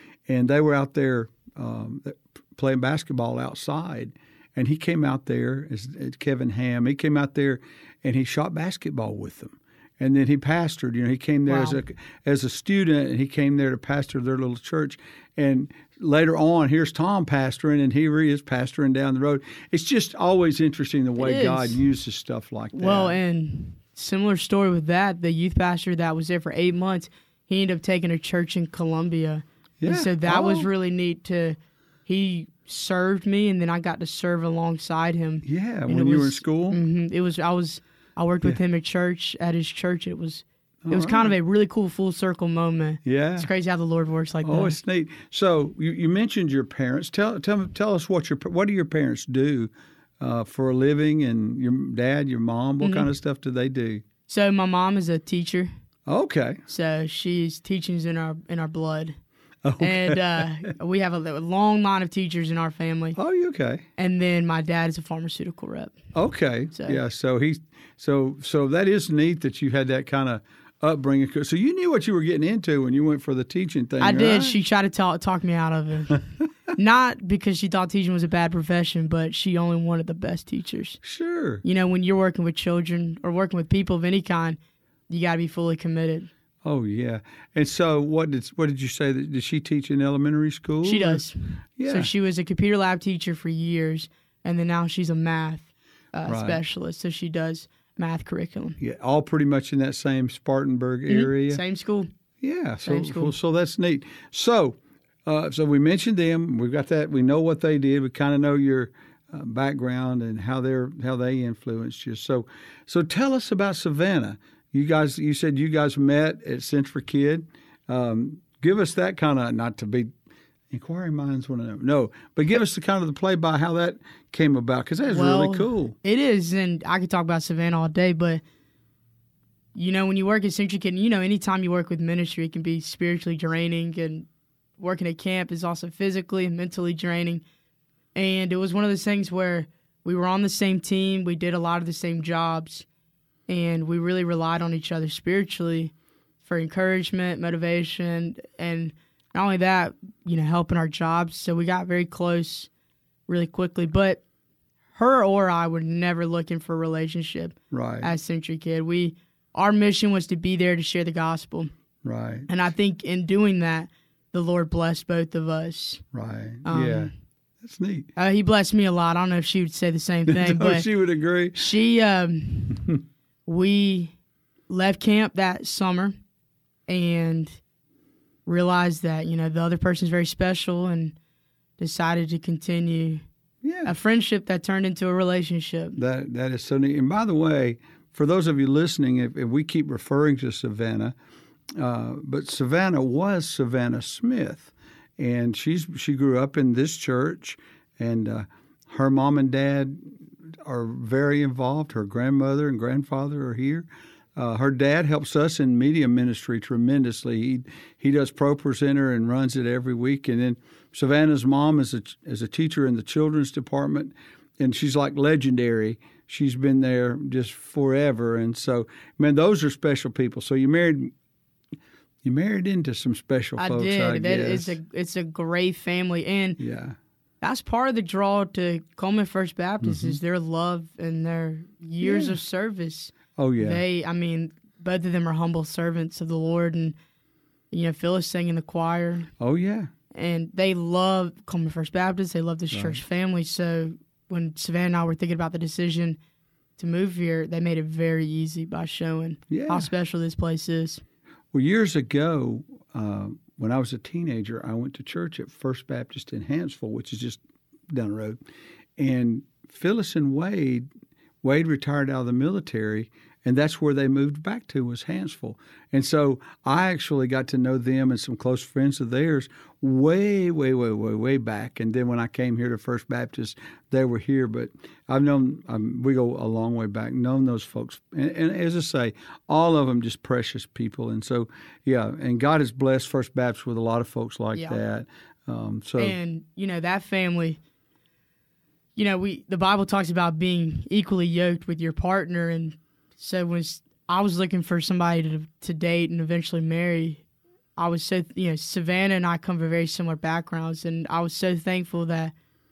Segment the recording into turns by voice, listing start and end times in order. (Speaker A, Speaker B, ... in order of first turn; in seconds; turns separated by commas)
Speaker A: 0.3-23.2, Speaker B: 11.5-11.8, Speaker B: 21.2-21.8, Speaker B: 22.7-44.8, Speaker A: 29.8-30.7, Speaker A: 35.4-36.8, Speaker A: 40.9-41.3, Speaker A: 43.0-43.5, Speaker A: 44.4-54.0, Speaker B: 52.8-53.1, Speaker B: 54.3-55.7, Speaker A: 56.1-56.6, Speaker B: 56.7-59.1, Speaker A: 59.6-60.4, Speaker B: 59.8-63.2, Speaker A: 63.1-63.8, Speaker B: 64.0-66.0, Speaker A: 66.1-74.5, Speaker B: 66.7-67.0, Speaker B: 74.0-81.0, Speaker A: 81.0-81.6, Speaker B: 81.6-84.6, Speaker B: 85.1-86.3, Speaker A: 86.6-91.2, Speaker B: 90.8-98.8, Speaker A: 91.8-92.1, Speaker A: 96.3-96.6, Speaker A: 98.8-101.6, Speaker B: 101.1-102.1, Speaker A: 102.4-120.1, Speaker B: 102.8-103.3, Speaker A: 120.7-125.9, Speaker B: 125.1-128.4, Speaker B: 129.7-134.3, Speaker B: 134.8-137.4, Speaker B: 138.1-142.8, Speaker B: 143.5-152.7, Speaker B: 153.3-154.2, Speaker B: 154.9-161.7, Speaker A: 157.7-158.1, Speaker A: 162.0-162.5, Speaker B: 162.5-166.0, Speaker A: 166.1-168.1, Speaker B: 166.7-167.1, Speaker B: 168.2-170.8, Speaker A: 170.3-171.6, Speaker B: 171.5-172.9, Speaker B: 173.4-174.1, Speaker B: 174.7-176.2, Speaker B: 176.9-177.6, Speaker B: 178.4-181.2, Speaker B: 181.8-183.2, Speaker A: 183.6-183.9, Speaker B: 183.8-186.0, Speaker A: 185.9-191.1, Speaker A: 191.8-221.1, Speaker A: 222.2-224.8, Speaker B: 223.6-226.6, Speaker A: 226.6-227.0, Speaker B: 227.4-236.9, Speaker A: 229.8-230.2, Speaker A: 232.0-232.4, Speaker A: 233.3-233.8, Speaker B: 237.7-239.3, Speaker A: 239.4-239.9, Speaker B: 240.1-246.2, Speaker A: 242.7-243.0, Speaker B: 246.8-251.0, Speaker A: 249.5-249.9, Speaker A: 251.5-258.4, Speaker A: 259.0-260.9, Speaker A: 261.4-286.2, Speaker B: 286.0-287.6, Speaker B: 288.9-297.2, Speaker B: 297.8-302.3